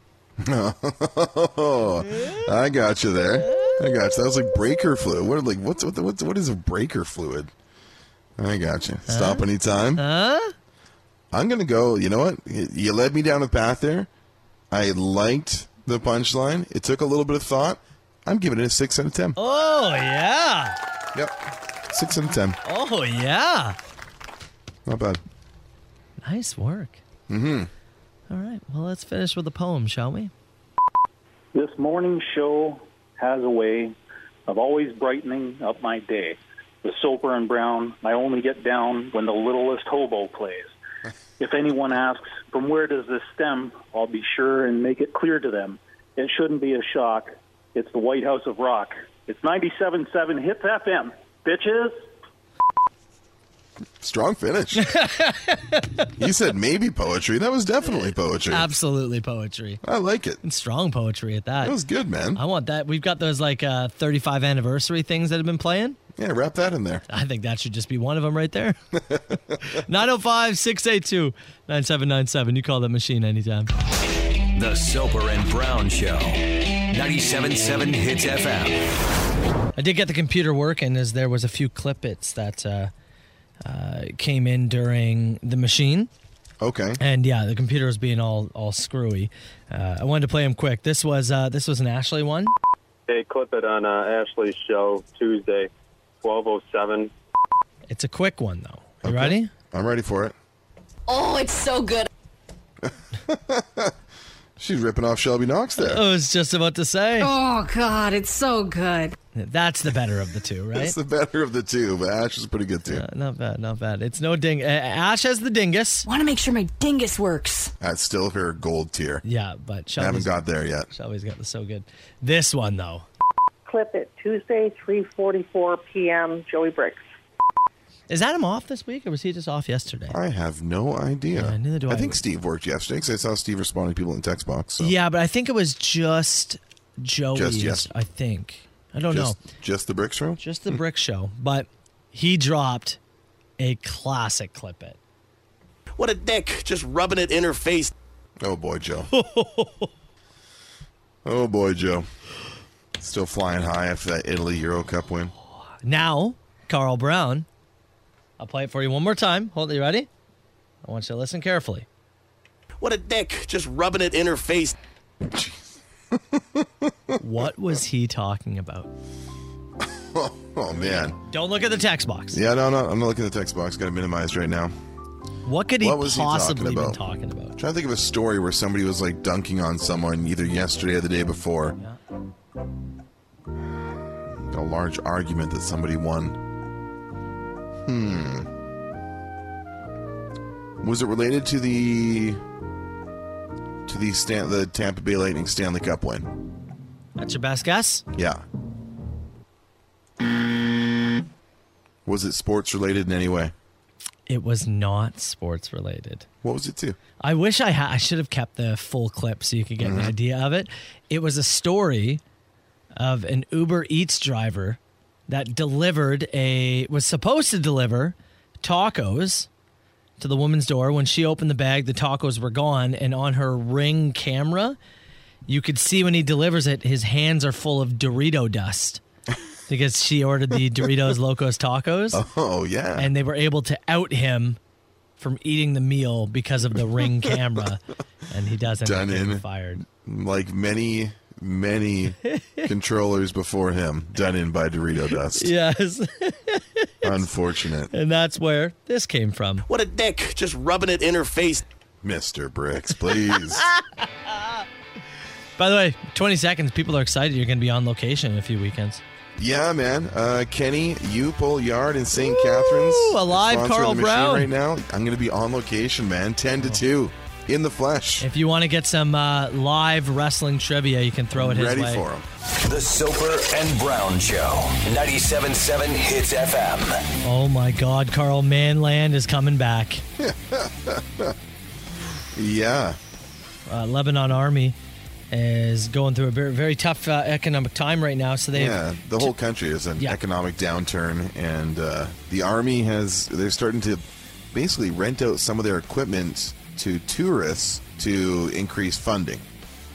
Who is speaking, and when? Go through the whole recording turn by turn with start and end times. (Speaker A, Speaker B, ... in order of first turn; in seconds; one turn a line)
Speaker A: 0.4-7.5
Speaker B: 2.1-2.4
Speaker B: 3.5-3.9
Speaker A: 8.4-10.0
Speaker B: 9.1-10.5
Speaker A: 11.3-14.1
Speaker A: 14.7-19.4
Speaker B: 19.4-20.8
Speaker A: 21.1-22.6
Speaker B: 22.6-23.8
Speaker A: 24.9-25.2
Speaker B: 26.2-27.0
Speaker A: 27.3-27.7
Speaker B: 28.3-30.3
Speaker C: 31.5-34.0
Speaker C: 34.5-40.8
Speaker C: 41.4-52.1
Speaker A: 54.0-54.9
Speaker B: 54.8-56.1
Speaker A: 56.2-58.7
Speaker B: 58.5-59.8
Speaker A: 59.8-60.4
Speaker B: 60.4-61.8
Speaker A: 61.6-62.4
Speaker B: 62.4-66.0
Speaker A: 66.2-67.0
Speaker B: 67.1-68.8
Speaker A: 69.0-69.2
Speaker B: 69.6-73.7
Speaker D: 74.5-78.9
Speaker B: 79.8-82.9
Speaker B: 83.7-86.1
Speaker A: 86.6-87.0
Speaker B: 87.0-92.5
Speaker E: 93.1-95.7
Speaker E: 96.2-97.1
Speaker B: 97.9-99.5
Speaker A: 99.0-100.3
Speaker F: 101.1-102.1
Speaker A: 102.8-104.0
Speaker A: 104.6-106.0
Speaker B: 105.8-107.3
Speaker F: 107.2-109.2
Speaker B: 109.3-111.0
Speaker A: 110.7-113.0
Speaker B: 112.9-116.1
Speaker F: 116.0-117.7
Speaker A: 117.8-119.2
Speaker B: 119.2-120.4
Speaker A: 120.0-120.9
Speaker B: 120.9-123.1
Speaker G: 123.7-127.0
Speaker B: 128.1-130.2
Speaker A: 130.1-134.9
Speaker B: 131.3-132.2
Speaker B: 134.8-139.4
Speaker A: 137.3-137.9
Speaker A: 139.1-140.8
Speaker B: 140.4-143.0
Speaker B: 143.6-145.0
Speaker H: 146.0-147.9
Speaker A: 148.4-149.1
Speaker B: 149.1-149.9
Speaker A: 151.2-152.1
Speaker A: 153.0-155.3
Speaker B: 155.8-157.5
Speaker B: 158.4-160.1
Speaker B: 160.8-161.9
Speaker H: 162.8-164.8
Speaker A: 165.2-167.2
Speaker B: 167.2-168.9
Speaker A: 169.8-171.2
Speaker B: 170.8-172.4
Speaker A: 172.3-174.7
Speaker B: 175.4-177.6
Speaker A: 175.8-177.0
Speaker A: 177.6-181.8
Speaker A: 184.5-186.4
Speaker A: 187.8-188.5
Speaker A: 190.8-192.4
Speaker A: 193.9-196.3
Speaker B: 197.2-198.0
Speaker A: 198.1-198.4
Speaker A: 202.1-203.5
Speaker B: 204.3-206.3
Speaker A: 206.4-207.0
Speaker B: 207.2-212.2
Speaker A: 209.8-210.2
Speaker B: 213.0-219.5
Speaker B: 220.2-224.8
Speaker B: 225.5-229.0
Speaker B: 229.7-232.2
Speaker A: 232.1-233.1
Speaker B: 233.0-234.6
Speaker B: 235.2-239.8
Speaker A: 238.8-245.5
Speaker B: 242.2-242.7
Speaker B: 245.3-247.2
Speaker A: 247.0-247.9
Speaker B: 247.9-249.7
Speaker H: 249.7-251.7
Speaker A: 252.0-253.7
Speaker B: 253.3-254.7
Speaker B: 255.6-259.0
Speaker A: 259.4-268.3
Speaker B: 262.1-264.5
Speaker B: 268.2-272.0
Speaker A: 271.4-272.3
Speaker D: 272.6-277.0
Speaker B: 277.2-280.1
Speaker A: 280.2-281.4
Speaker A: 282.3-283.0
Speaker B: 283.7-284.8
Speaker B: 285.3-289.3
Speaker A: 288.5-299.4